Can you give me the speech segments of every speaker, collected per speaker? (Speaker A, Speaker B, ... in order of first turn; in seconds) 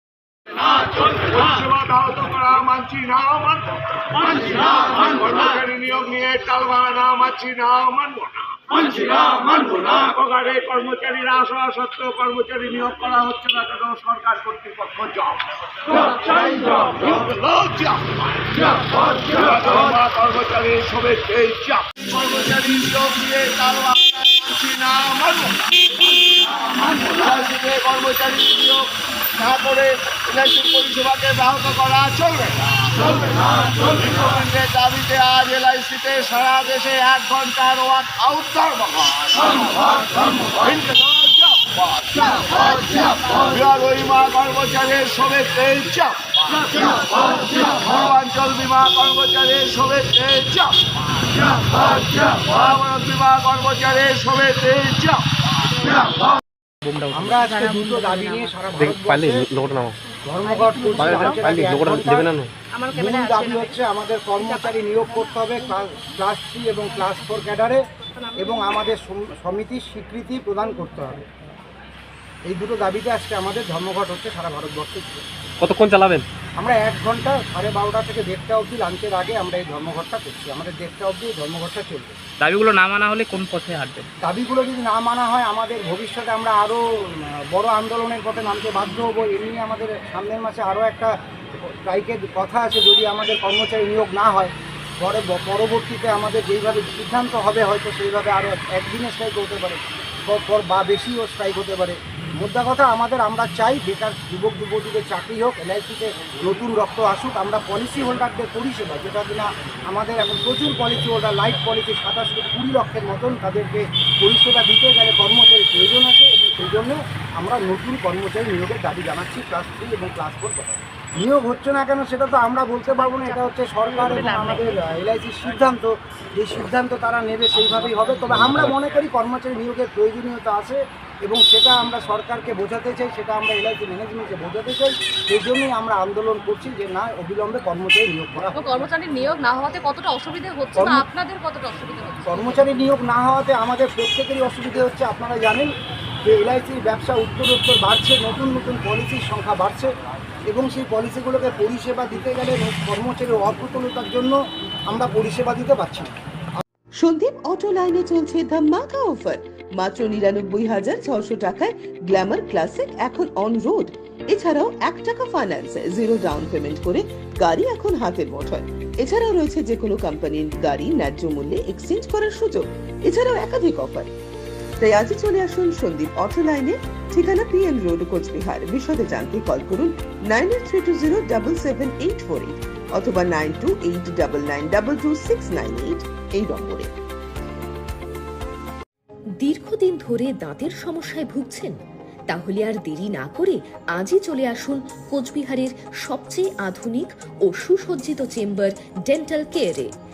Speaker A: 1.3-3.6, 4.2-8.5, 9.4-15.3, 16.1-18.0, 19.5-25.4, 27.0-27.4, 28.3-28.8, 30.4-31.1, 32.5-34.2, 36.1-39.4, 40.6-44.0, 44.9-46.8, 47.5-50.7, 52.4-53.5
Speaker B: 57.0-58.5, 82.4-84.1
Speaker C: 57.1-59.4, 60.3-62.3, 62.9-67.8, 68.4-71.2, 72.5-75.2, 76.6-82.1, 84.2-91.1, 91.6-138.9, 140.8-141.0, 142.3-145.7, 146.2-149.9, 150.5-154.3, 154.9-156.6
Speaker D: 58.8-59.9, 61.0-62.5, 75.6-76.2, 128.4-128.7
Speaker E: 60.5-61.6, 62.7-63.8, 64.4-65.6, 68.2-68.8, 122.8-124.7, 138.6-142.8
Speaker F: 157.0-174.1, 174.8-186.9
Speaker G: 189.4-191.7, 192.3-199.9